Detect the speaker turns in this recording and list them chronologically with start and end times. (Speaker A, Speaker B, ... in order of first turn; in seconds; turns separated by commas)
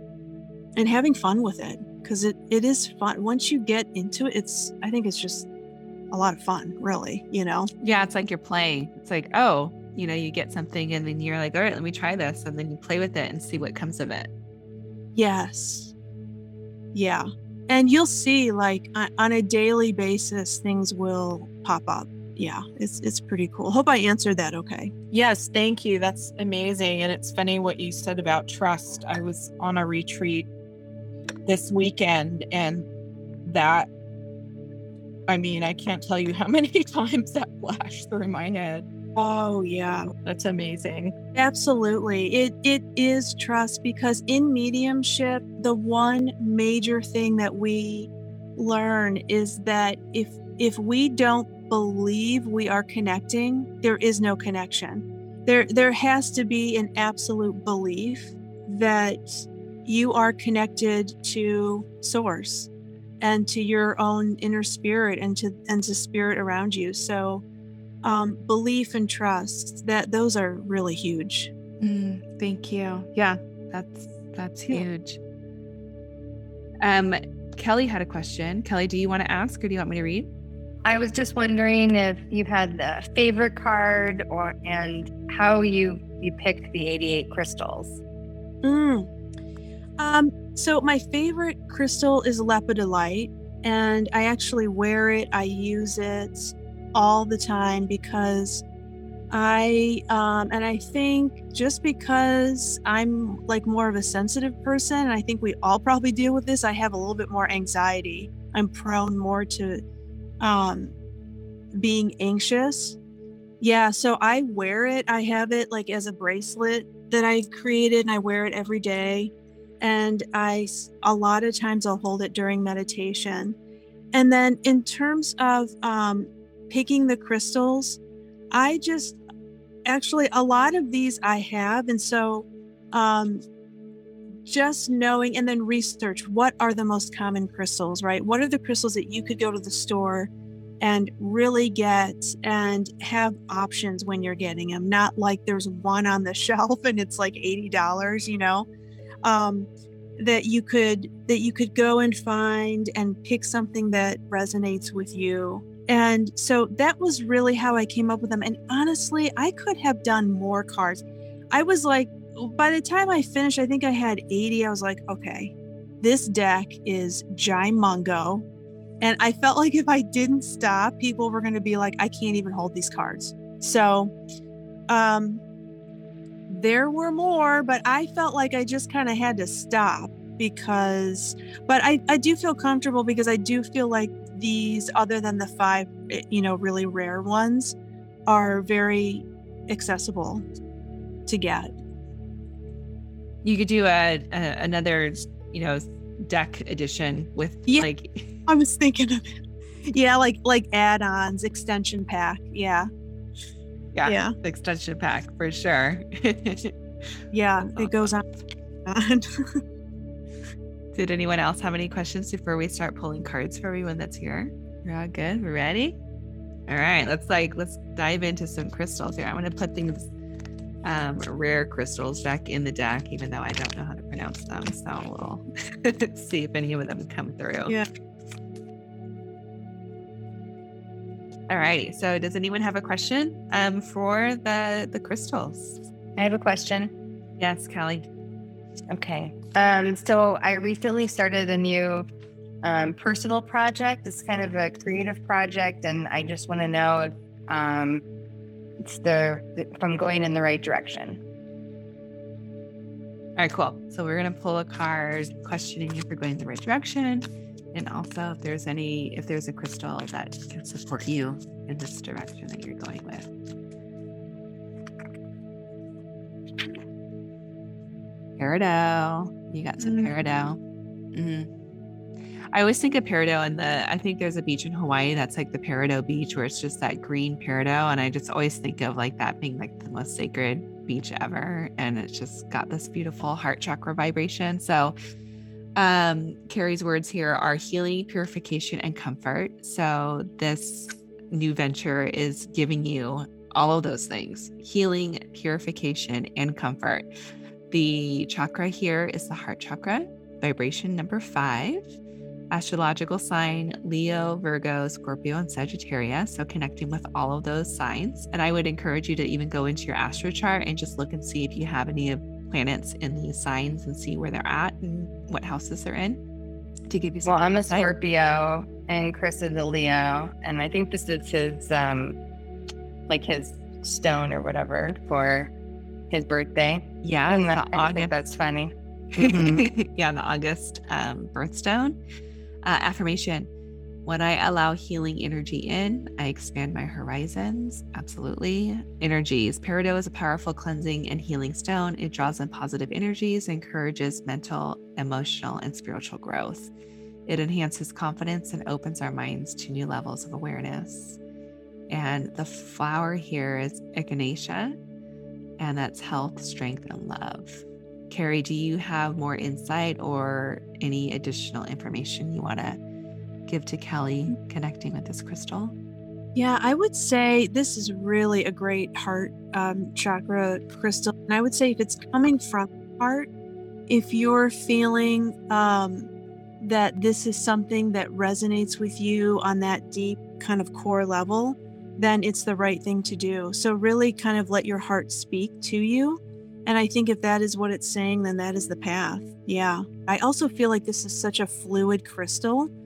Speaker A: 0.8-5.5, Speaker A: 6.1-7.7, Speaker B: 7.8-14.3, Speaker A: 15.1-15.9, Speaker A: 16.9-24.9, Speaker C: 25.1-30.5, Speaker C: 31.4-32.9, Speaker C: 33.4-33.9, Speaker C: 35.3-38.9, Speaker A: 39.1-40.1, Speaker C: 40.2-41.1, Speaker A: 41.3-67.4, Speaker A: 68.0-71.5, Speaker B: 71.8-75.2, Speaker B: 76.8-80.3, Speaker D: 80.8-88.0, Speaker A: 88.6-89.1, Speaker A: 90.0-98.6, Speaker A: 99.3-109.8, Speaker A: 110.4-110.9, Speaker A: 111.7-113.0, Speaker A: 113.6-123.5, Speaker A: 124.1-128.0, Speaker A: 128.5-129.2, Speaker A: 129.8-133.4, Speaker A: 134.4-148.7, Speaker A: 149.2-168.4, Speaker A: 169.0-174.1, Speaker A: 174.9-175.4, Speaker A: 176.5-187.7, Speaker A: 188.3-190.4, Speaker A: 191.2-191.7, Speaker B: 193.4-198.3, Speaker A: 198.5-199.2, Speaker A: 199.8-202.9, Speaker B: 203.9-206.7, Speaker A: 204.0-204.3, Speaker A: 207.3-208.2, Speaker B: 207.7-208.1, Speaker A: 208.8-209.6, Speaker B: 210.9-216.0, Speaker B: 216.7-220.1, Speaker B: 220.8-227.8, Speaker B: 231.5-235.8, Speaker D: 236.2-236.9, Speaker B: 237.4-238.1, Speaker D: 238.9-242.1, Speaker D: 242.6-248.0, Speaker D: 248.8-251.2, Speaker B: 253.4-263.3, Speaker B: 268.4-270.6, Speaker B: 271.1-271.5, Speaker B: 272.5-284.9, Speaker B: 285.8-297.1, Speaker B: 297.7-301.9, Speaker B: 302.5-316.2, Speaker B: 316.9-317.9, Speaker D: 317.2-322.2, Speaker D: 323.1-325.5, Speaker D: 326.1-329.6, Speaker B: 327.0-328.1, Speaker B: 329.1-332.0, Speaker B: 332.6-333.5, Speaker B: 334.1-346.7, Speaker B: 347.3-351.2, Speaker B: 351.9-354.8, Speaker B: 355.6-362.8, Speaker B: 363.5-365.7, Speaker A: 366.3-373.3, Speaker A: 373.9-392.7